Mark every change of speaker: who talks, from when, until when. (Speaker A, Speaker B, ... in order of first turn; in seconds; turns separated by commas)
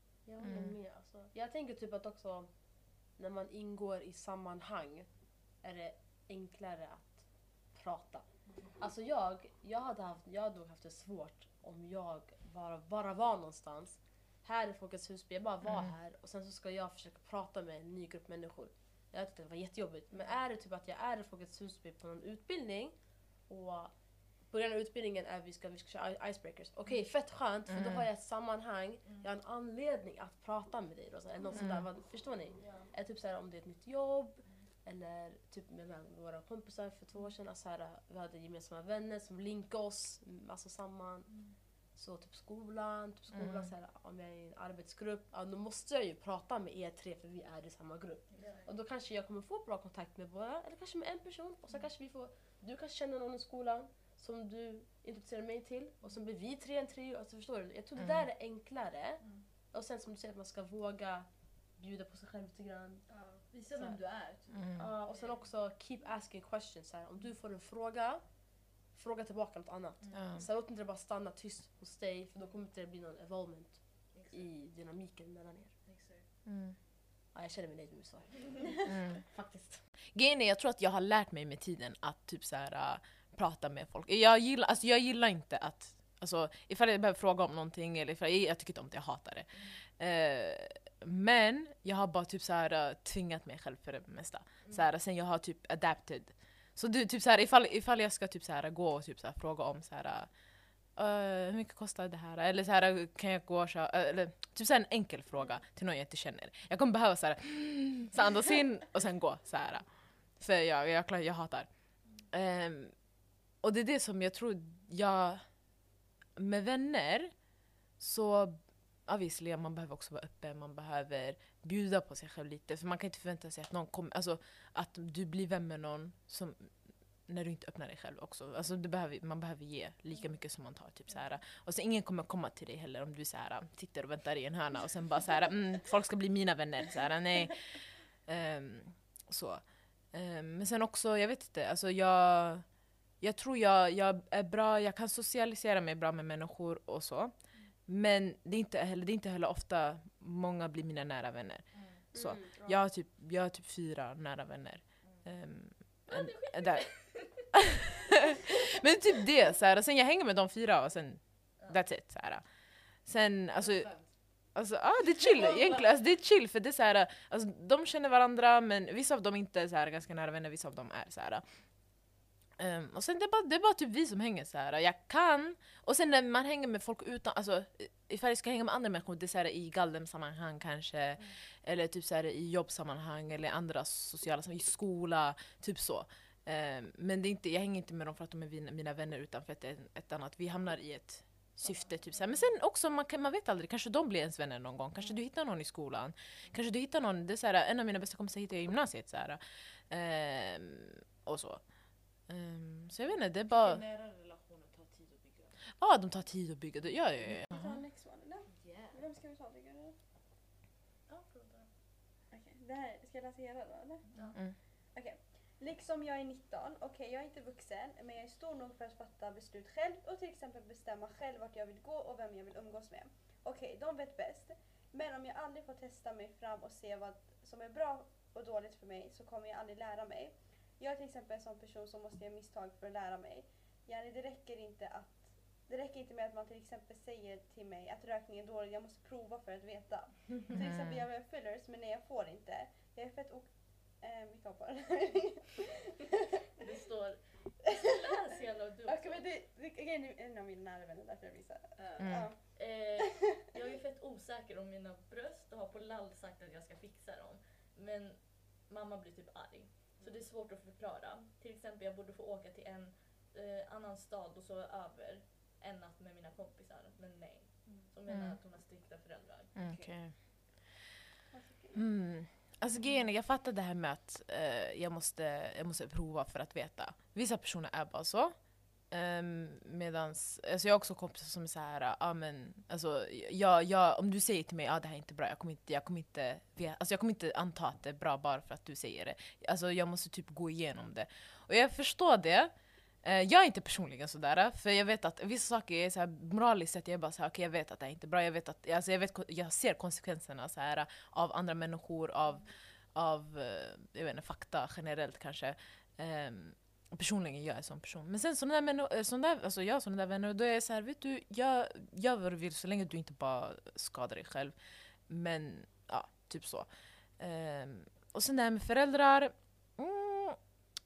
Speaker A: 0.2-23.9, Speaker B: 0.4-0.8, Speaker B: 15.7-15.9, Speaker A: 24.5-63.1, Speaker B: 27.7-28.0, Speaker B: 31.5-31.9, Speaker B: 43.3-43.7, Speaker C: 48.3-48.7, Speaker D: 63.1-65.4, Speaker A: 63.7-64.0, Speaker B: 64.5-64.9, Speaker A: 64.7-75.8, Speaker D: 70.0-70.5, Speaker B: 70.1-70.5, Speaker D: 74.1-74.5, Speaker D: 75.8-76.3, Speaker B: 76.5-76.8, Speaker A: 77.3-79.8, Speaker B: 78.9-79.2, Speaker B: 80.1-157.6, Speaker D: 94.6-94.9, Speaker D: 151.7-152.0, Speaker A: 152.1-152.8, Speaker E: 152.2-152.7, Speaker C: 156.1-157.6, Speaker B: 158.3-203.8, Speaker D: 163.5-164.5, Speaker D: 165.1-166.0, Speaker D: 191.6-191.9, Speaker D: 203.1-205.6, Speaker B: 205.8-207.6, Speaker E: 207.3-210.0, Speaker D: 208.5-209.0, Speaker C: 211.1-211.7, Speaker E: 212.3-214.1, Speaker C: 214.1-214.4, Speaker E: 214.9-245.7, Speaker B: 240.5-241.0, Speaker C: 246.6-249.3, Speaker E: 248.8-253.3, Speaker D: 251.8-252.3, Speaker B: 252.0-252.3, Speaker C: 252.4-270.0, Speaker B: 268.1-268.4, Speaker B: 269.5-270.6, Speaker E: 271.3-271.9, Speaker B: 271.7-320.5